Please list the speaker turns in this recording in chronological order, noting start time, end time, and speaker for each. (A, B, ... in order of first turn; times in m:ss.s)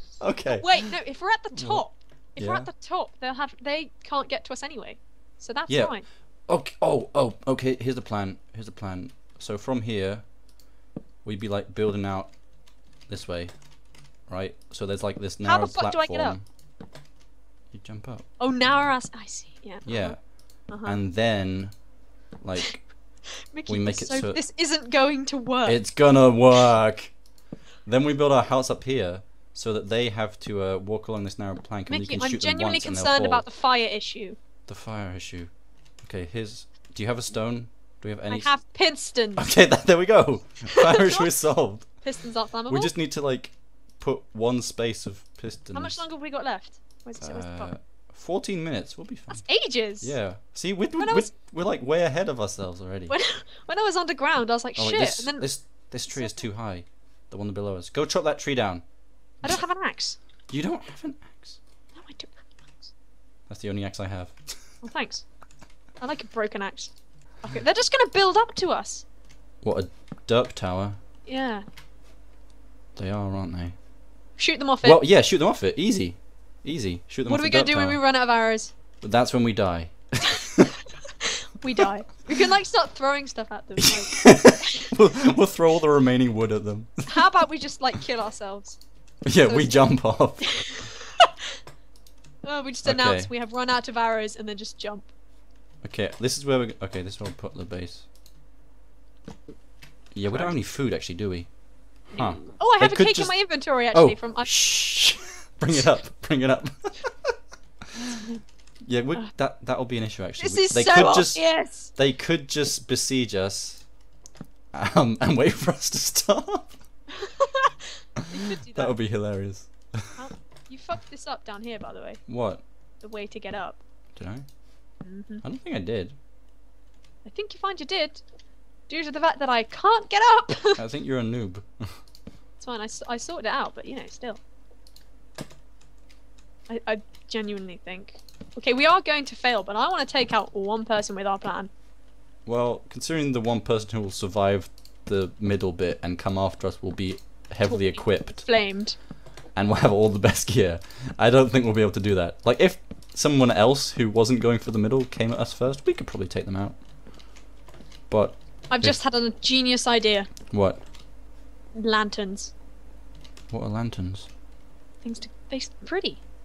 0:00.2-0:00.9 A
0:00.5-0:06.1 B
0:01.5-0:01.8 A
0:02.4-0:02.7 A
0:05.7-0:10.4 A
0:11.2-0:12.4 A
0:13.1-0:13.6 A
0:14.2-0:16.4 A
0:15.4-0:16.4 B
0:17.7-0:18.3 A
0:18.4-0:21.0 B
0:19.8-0:21.8 A
0:22.4-0:24.4 A
0:23.5-0:25.9 B
0:25.6-0:27.2 A
0:27.8-0:33.4 A
0:31.9-0:34.4 B
0:34.7-0:38.5 A
0:38.3-0:39.5 B
0:39.4-0:42.0 A
0:40.8-0:41.3 B
0:42.0-0:42.9 B
0:42.7-0:46.0 A
0:45.7-0:47.8 B
0:47.2-0:53.2 A
0:49.3-0:50.2 B
0:51.0-0:51.3 B
0:53.1-0:56.4 B
0:54.8-0:58.8 A
0:59.4-1:00.2 B
1:00.5-1:01.6 A
1:01.9-1:02.9 B
1:03.5-1:04.7 A
1:04.8-1:05.3 B
1:06.0-1:09.0 B
1:09.6-1:11.0 A
1:11.2-1:11.6 B
1:13.0-1:13.8 A
1:14.4-1:15.0 B
1:14.8-1:18.0 A
1:17.2-1:18.7 B
1:19.0-1:20.6 A
1:21.6-1:24.9 B
1:23.8-1:27.3 A
1:27.1-1:28.8 B
1:29.2-1:30.8 A
1:29.4-1:30.9 B
1:32.4-1:35.1 B
1:32.8-1:33.3 A
1:35.8-1:38.1 A
1:40.1-1:41.5 A
1:42.0-1:47.3 A
1:42.1-1:44.5 B
1:48.9-1:53.9 A
1:50.4-1:51.9 B
1:54.7-1:56.8 A
1:57.2-1:57.8 B
1:58.3-1:59.0 B
1:58.7-2:00.2 A
2:00.2-2:02.2 B
2:02.3-2:02.6 A
2:03.0-2:03.8 B
2:04.2-2:04.5 A
2:05.0-2:05.4 B
2:05.4-2:06.2 A
2:07.2-2:08.2 B
2:08.9-2:10.8 B
2:10.8-2:11.9 A
2:12.6-2:14.4 B
2:16.7-2:21.7 B
2:22.5-2:28.7 A
2:27.7-2:29.0 B
2:29.5-2:36.9 A
2:38.1-2:39.0 A
2:38.7-2:40.3 B
2:40.5-2:40.9 A
2:41.8-2:42.5 B
2:43.5-2:44.3 A
2:45.0-2:46.2 B